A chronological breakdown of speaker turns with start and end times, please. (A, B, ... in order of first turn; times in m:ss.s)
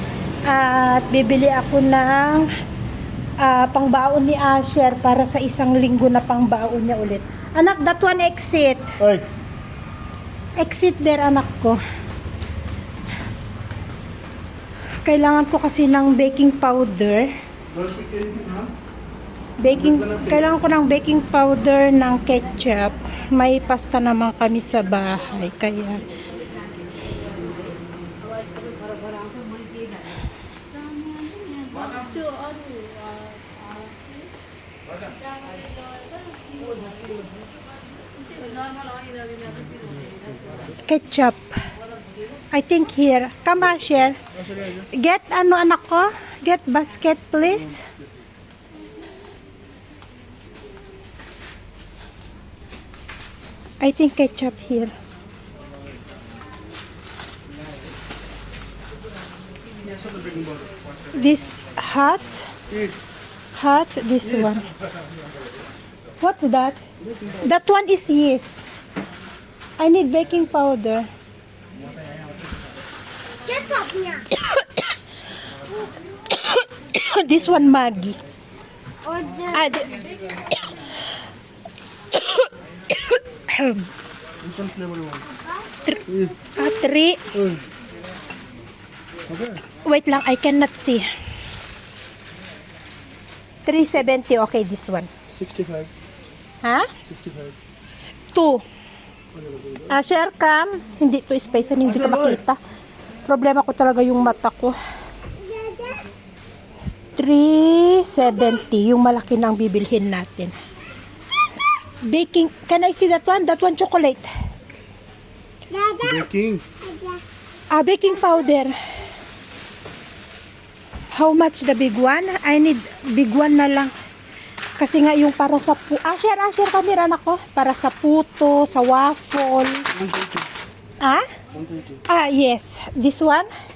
0:00.5-0:02.5 A
0:03.4-0:09.1 A
0:10.6-0:11.8 A
0:15.0-0:17.3 A
0:17.7-0:18.7 B
0:19.6-0:26.0 A
0:28.6-0:29.3 C
0:31.1-0:33.2 C
0:40.9-0:41.5 A
0:42.5-0:44.2 A
0:44.8-0:47.9 A
0:53.8-0:54.9 A
1:00.0-1:00.6 B
1:01.1-1:02.5 A
1:03.6-1:04.7 A
1:06.2-1:06.8 A
1:07.4-1:08.6 A
1:09.8-1:11.1 A
1:13.4-1:14.3 C
1:14.3-1:14.6 A
1:16.3-1:18.2 A
1:19.0-1:19.7 C
1:19.5-1:20.7 A
1:22.1-1:23.9 A
1:24.4-1:25.2 B
1:25.8-1:27.3 A
1:26.1-1:26.3 B
1:29.3-1:29.6 B
1:29.8-1:31.1 A
1:33.7-1:35.1 A
1:35.3-1:35.9 B
1:36.6-1:36.9 A
1:37.1-1:37.6 B
1:38.3-1:38.6 A
1:39.4-1:39.8 B
1:39.9-1:42.6 A
1:43.3-1:44.8 A
1:45.4-1:46.0 C
1:47.2-1:50.6 A
1:52.0-1:54.3 A
1:55.7-1:56.2 C
1:56.0-1:56.6 B
1:56.8-1:57.2 C
1:57.7-1:58.8 A
2:01.1-2:03.9 A
2:04.8-2:09.9 A
2:10.0-2:10.4 B
2:11.6-2:12.0 B
2:12.1-2:13.5 A